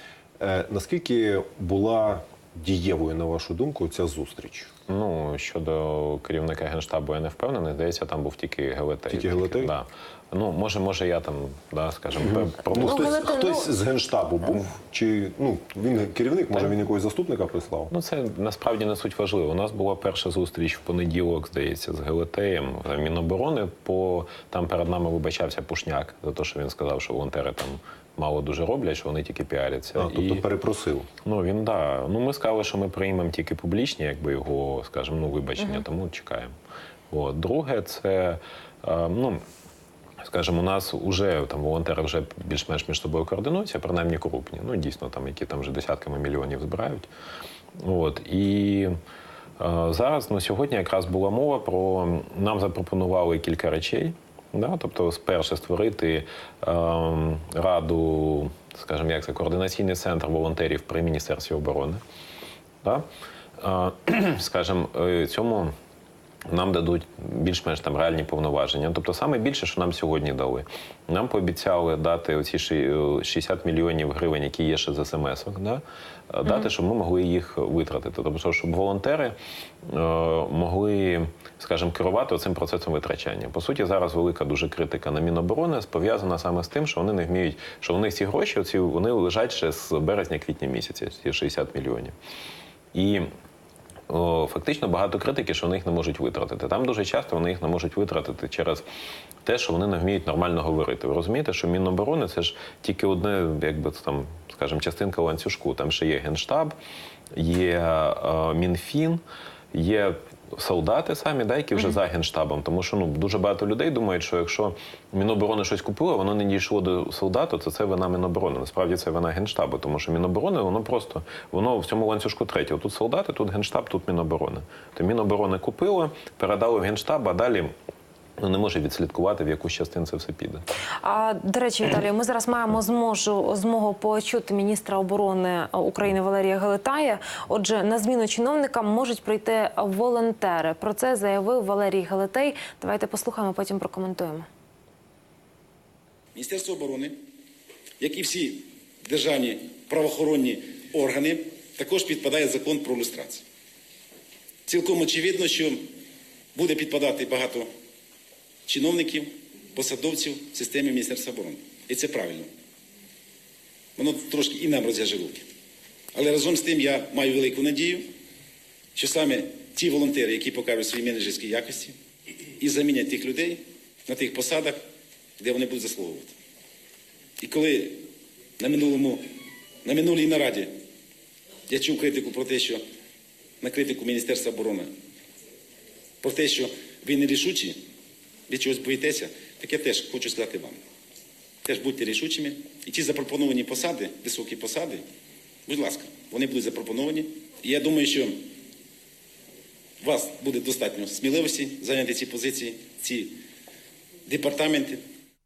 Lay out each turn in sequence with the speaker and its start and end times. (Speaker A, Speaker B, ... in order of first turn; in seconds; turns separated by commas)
Speaker A: 0.4-4.7, Speaker B: 4.9-13.1, Speaker A: 9.1-9.7, Speaker A: 12.3-17.9, Speaker C: 12.7-13.7, Speaker B: 17.9-30.4, Speaker A: 29.9-31.1, Speaker B: 31.2-36.5, Speaker B: 37.1-39.4, Speaker B: 40.2-47.1, Speaker B: 47.8-48.9, Speaker B: 49.6-62.0, Speaker B: 63.6-65.7, Speaker B: 66.5-92.1, Speaker C: 76.4-76.7, Speaker B: 92.9-93.3, Speaker B: 94.1-98.8, Speaker B: 99.4-106.7, Speaker B: 107.3-109.2, Speaker B: 109.7-127.7, Speaker B: 128.4-130.6, Speaker C: 131.0-144.5, Speaker D: 146.3-147.2, Speaker D: 148.0-153.4, Speaker D: 154.7-155.9, Speaker D: 156.5-157.7, Speaker D: 158.7-162.5, Speaker D: 163.9-165.5, Speaker D: 166.1-168.1, Speaker D: 168.9-172.0, Speaker D: 172.6-174.8, Speaker D: 175.4-176.3, Speaker D: 177.4-178.0, Speaker D: 178.6-179.2, Speaker D: 179.8-180.7, Speaker D: 181.7-182.8, Speaker D: 183.6-184.9, Speaker D: 186.2-187.8, Speaker D: 188.5-190.8, Speaker D: 191.6-195.0, Speaker D: 195.7-198.5, Speaker D: 200.0-203.4, Speaker D: 204.3-205.0